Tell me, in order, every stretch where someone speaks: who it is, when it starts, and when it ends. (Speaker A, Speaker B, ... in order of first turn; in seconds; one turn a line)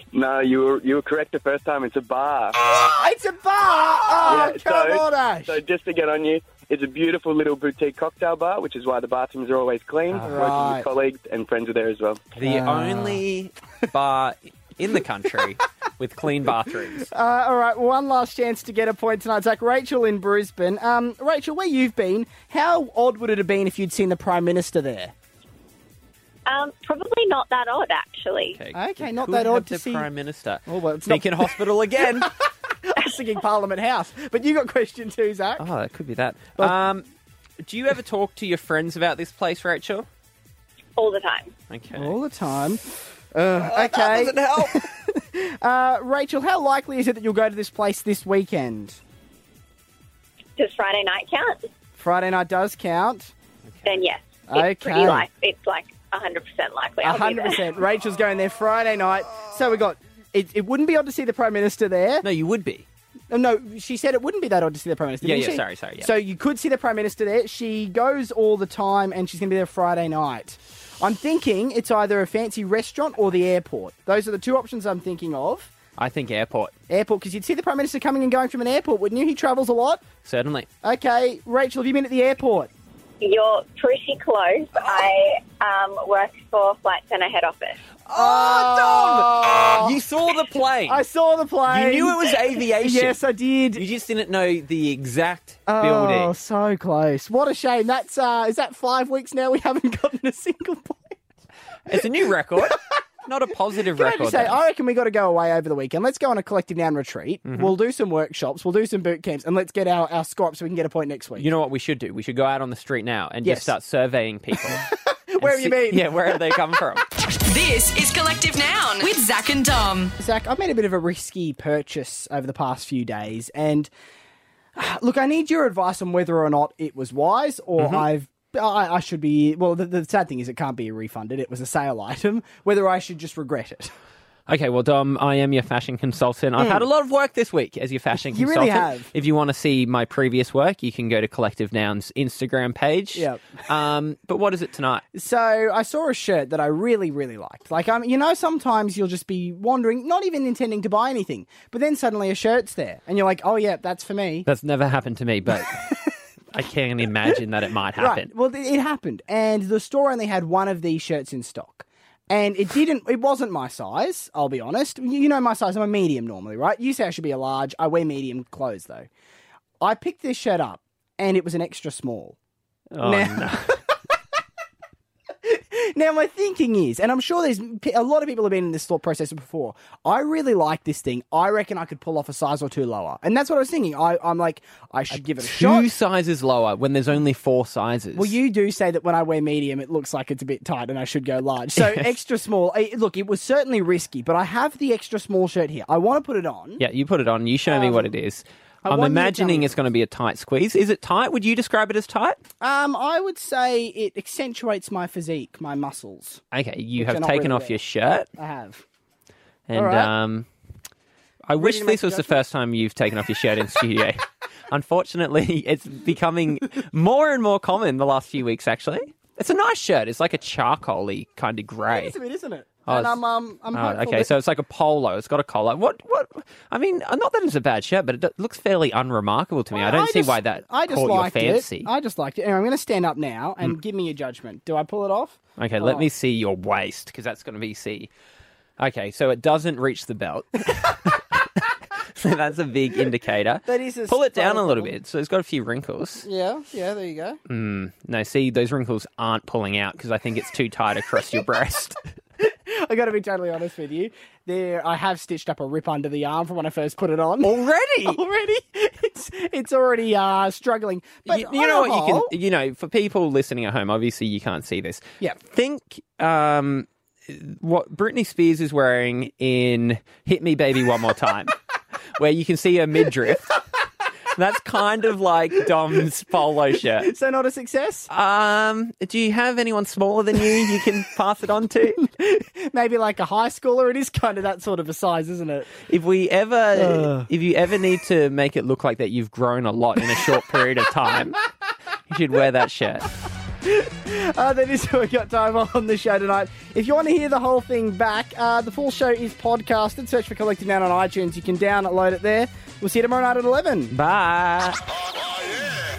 Speaker A: 0.1-2.8
Speaker B: 2.7-5.6
Speaker A: 4.2-12.3
Speaker C: 10.1-10.5
Speaker B: 10.2-10.8
Speaker C: 12.3-17.1
Speaker B: 12.4-13.2
Speaker B: 17.0-25.1
Speaker D: 26.5-28.6
Speaker C: 28.5-32.3
Speaker B: 28.7-30.1
Speaker B: 30.6-35.7
Speaker C: 35.6-37.1
Speaker C: 37.6-40.1
Speaker D: 41.0-41.5
Speaker C: 41.7-42.1
Speaker B: 41.9-42.8
Speaker B: 43.3-49.0
Speaker C: 43.6-44.8
Speaker D: 50.6-51.7
Speaker B: 52.0-53.3
Speaker C: 53.7-54.0
Speaker D: 53.8-57.6
Speaker B: 54.5-55.3
Speaker B: 57.0-62.2
Speaker C: 62.2-62.9
Speaker B: 63.3-75.7
Speaker C: 65.2-66.1
Speaker C: 76.0-76.7
Speaker B: 76.9-80.0
Speaker C: 80.2-80.7
Speaker B: 80.8-82.7
Speaker D: 83.2-87.8
Speaker C: 88.1-91.0
Speaker B: 88.1-90.0
Speaker B: 90.9-93.8
Speaker C: 91.7-93.2
Speaker C: 93.8-96.3
Speaker B: 95.7-101.2
Speaker C: 101.8-104.6
Speaker B: 103.9-111.5
Speaker C: 107.4-107.7
Speaker C: 111.4-114.8
Speaker B: 113.4-113.7
Speaker B: 114.7-116.6
Speaker C: 115.4-117.0
Speaker E: 117.4-120.1
Speaker B: 120.2-123.9
Speaker B: 124.8-133.9
Speaker C: 127.8-128.0
Speaker C: 134.5-145.0
Speaker B: 136.6-136.9
Speaker B: 138.1-139.1
Speaker B: 143.1-143.5
Speaker B: 145.1-154.5
Speaker C: 154.4-155.8
Speaker C: 156.5-158.3
Speaker B: 158.0-169.1
Speaker B: 169.8-172.3
Speaker C: 172.9-173.8
Speaker B: 173.0-173.8
Speaker B: 175.4-185.9
Speaker C: 185.1-188.3
Speaker B: 188.1-196.8
Speaker C: 191.8-192.1
Speaker C: 196.8-202.4
Speaker B: 197.7-198.1
Speaker B: 198.8-199.8
Speaker B: 202.6-206.4
Speaker C: 206.5-208.3
Speaker B: 207.0-207.8
Speaker B: 208.3-208.8
Speaker C: 209.7-210.5
Speaker B: 209.7-210.1
Speaker C: 211.5-222.1
Speaker B: 211.5-212.4
Speaker B: 221.9-224.3
Speaker C: 222.8-223.2
Speaker C: 223.7-231.9
Speaker B: 229.7-236.1
Speaker C: 235.6-238.1
Speaker C: 238.8-241.4
Speaker C: 242.2-246.3
Speaker B: 243.6-244.9
Speaker B: 246.2-247.4
Speaker C: 247.5-252.0
Speaker B: 252.4-262.3
Speaker C: 257.4-258.2
Speaker C: 261.3-271.6
Speaker C: 272.2-273.6
Speaker C: 274.3-277.1
Speaker B: 277.0-278.1
Speaker C: 278.1-282.0
Speaker B: 282.0-285.7
Speaker C: 285.9-291.4
Speaker B: 286.7-287.3
Speaker C: 292.1-293.1
Speaker B: 293.6-303.9
Speaker C: 303.9-304.8